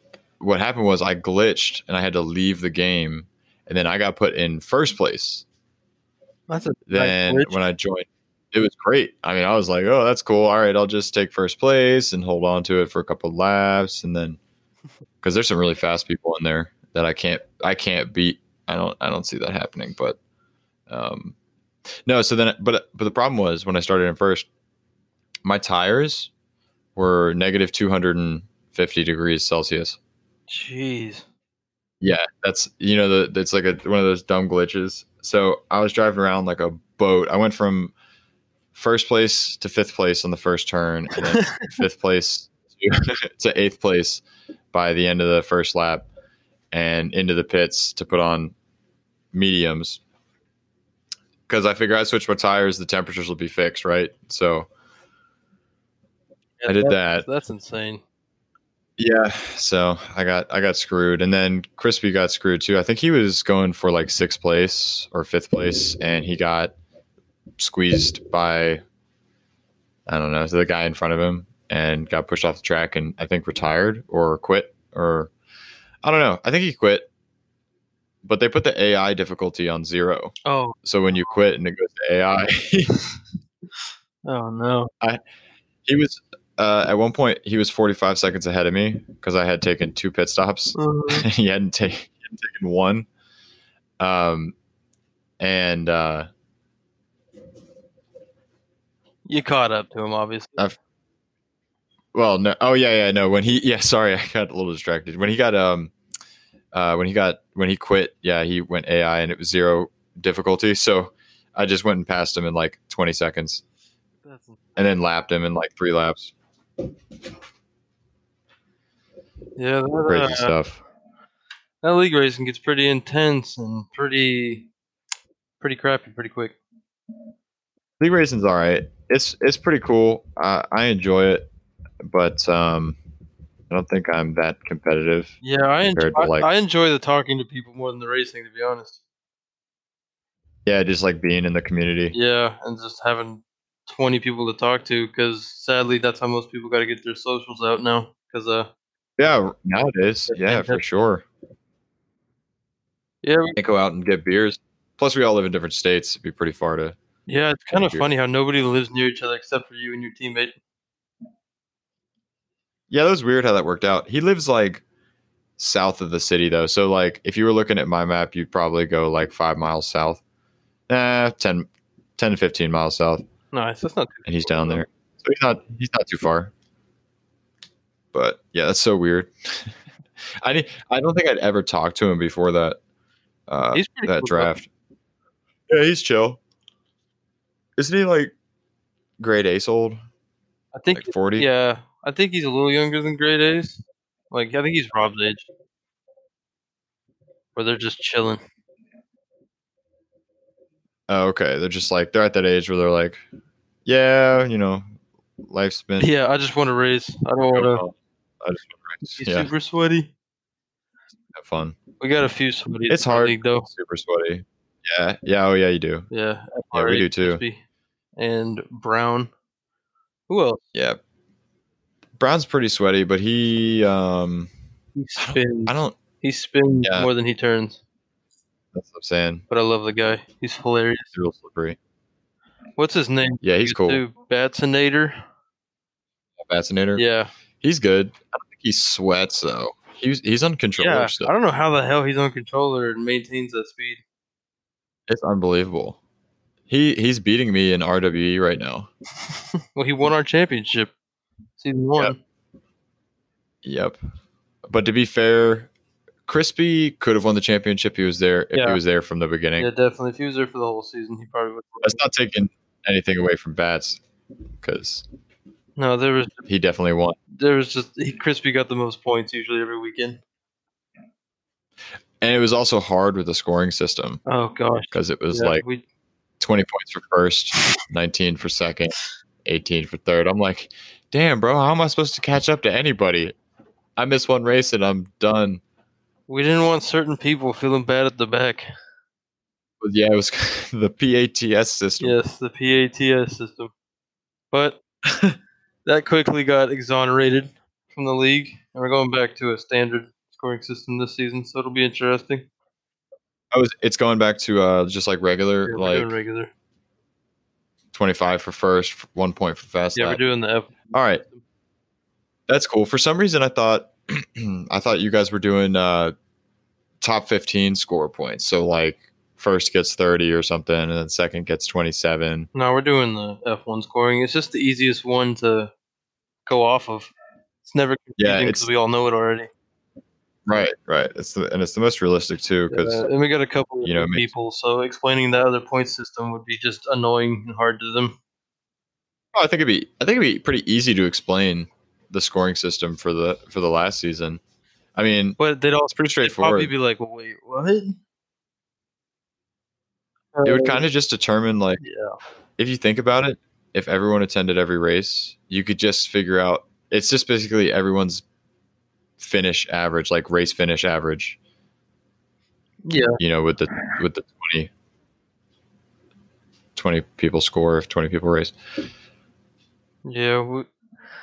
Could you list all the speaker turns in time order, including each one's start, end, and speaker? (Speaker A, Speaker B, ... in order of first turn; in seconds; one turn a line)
Speaker A: 0.4-5.4
Speaker B: 6.5-7.6
Speaker A: 6.9-14.4
Speaker A: 15.2-20.2
Speaker A: 20.9-21.3
Speaker A: 22.0-24.5
Speaker A: 25.4-26.3
Speaker A: 26.9-30.0
Speaker B: 30.5-31.2
Speaker A: 32.0-37.9
Speaker A: 38.7-46.1
Speaker B: 41.3-41.7
Speaker A: 46.7-48.5
Speaker A: 49.3-50.0
Speaker A: 51.5-54.7
Speaker B: 56.6-58.0
Speaker A: 56.7-57.2
Speaker A: 59.0-66.7
Speaker A: 67.6-68.8
Speaker A: 70.1-75.3
Speaker A: 76.0-77.1
Speaker A: 78.2-83.0
Speaker B: 80.4-80.8
Speaker B: 84.2-84.9
Speaker A: 85.8-93.1
Speaker B: 90.7-91.3
Speaker A: 94.0-94.5
Speaker A: 95.4-96.3
Speaker B: 99.2-100.6
Speaker A: 102.1-105.9
Speaker A: 106.7-113.6
Speaker B: 114.3-114.6
Speaker A: 114.8-116.3
Speaker B: 119.6-120.5
Speaker A: 120.0-120.8
Speaker B: 121.8-124.7
Speaker B: 125.6-126.6
Speaker A: 128.0-131.5
Speaker A: 132.0-133.0
Speaker A: 133.7-136.5
Speaker B: 135.4-139.0
Speaker A: 140.7-142.1
Speaker B: 142.1-148.7
Speaker A: 149.2-151.2
Speaker B: 150.3-150.8
Speaker B: 153.2-153.6
Speaker A: 153.6-157.0
Speaker B: 157.3-160.6
Speaker A: 157.7-158.1
Speaker A: 162.9-164.8
Speaker A: 165.6-170.2
Speaker A: 170.9-173.2
Speaker B: 173.5-174.8
Speaker A: 174.2-176.5
Speaker A: 178.1-179.8
Speaker A: 180.4-182.8
Speaker A: 183.5-184.7
Speaker B: 183.7-184.5
Speaker A: 185.7-186.4
Speaker A: 187.8-188.3
Speaker A: 189.2-190.0
Speaker B: 190.7-195.5
Speaker A: 190.9-191.5
Speaker B: 197.5-198.4
Speaker A: 201.1-203.2
Speaker A: 203.8-204.8
Speaker A: 205.4-206.1
Speaker B: 206.0-207.8
Speaker A: 207.5-209.5
Speaker B: 209.2-210.1
Speaker A: 211.3-211.8
Speaker B: 212.0-213.7
Speaker A: 212.9-216.1
Speaker B: 216.1-217.6
Speaker A: 216.7-217.4
Speaker B: 218.2-219.3
Speaker B: 220.3-220.6
Speaker A: 220.7-221.0
Speaker A: 222.2-224.5
Speaker B: 224.9-227.8
Speaker A: 225.2-226.0
Speaker A: 226.8-227.1
Speaker A: 228.7-229.4
Speaker B: 229.5-231.1
Speaker A: 231.1-231.8
Speaker B: 232.8-235.2
Speaker A: 233.4-234.0
Speaker A: 236.4-237.0
Speaker B: 236.9-237.3
Speaker A: 237.6-241.3
Speaker B: 240.8-244.0
Speaker A: 245.1-246.0
Speaker A: 246.7-248.9
Speaker B: 249.7-250.9
Speaker B: 251.6-252.2
Speaker A: 253.6-254.0
Speaker A: 254.7-255.7
Speaker A: 256.3-259.7
Speaker B: 258.5-258.8
Speaker B: 259.6-262.0
Speaker A: 261.8-264.0
Speaker A: 264.6-265.0
Speaker B: 265.8-266.4
Speaker A: 266.4-267.2
Speaker B: 267.3-270.2
Speaker A: 272.2-274.2
Speaker B: 274.2-275.8
Speaker A: 274.9-275.6
Speaker A: 276.4-283.4
Speaker A: 284.0-285.6
Speaker B: 286.3-288.7
Speaker A: 289.8-292.2
Speaker B: 292.0-293.7
Speaker B: 294.5-294.8
Speaker A: 295.1-295.4
Speaker B: 295.8-302.5
Speaker A: 303.5-306.1
Speaker B: 305.6-306.5
Speaker A: 307.9-310.2
Speaker B: 309.9-311.4
Speaker A: 310.9-311.2
Speaker A: 312.5-316.1
Speaker A: 317.0-322.5
Speaker B: 322.5-325.7
Speaker B: 326.4-327.1
Speaker B: 327.6-329.5
Speaker A: 328.2-328.7
Speaker A: 330.5-333.1
Speaker B: 332.7-338.2
Speaker A: 333.8-334.3
Speaker A: 339.3-344.4
Speaker A: 344.9-345.4
Speaker B: 345.4-348.0
Speaker A: 345.9-346.7
Speaker B: 350.3-350.8
Speaker A: 350.4-351.8
Speaker B: 351.8-352.1
Speaker A: 352.6-358.2
Speaker A: 359.2-361.4
Speaker B: 362.9-363.2
Speaker A: 363.2-364.7
Speaker A: 366.8-368.5
Speaker B: 370.0-370.7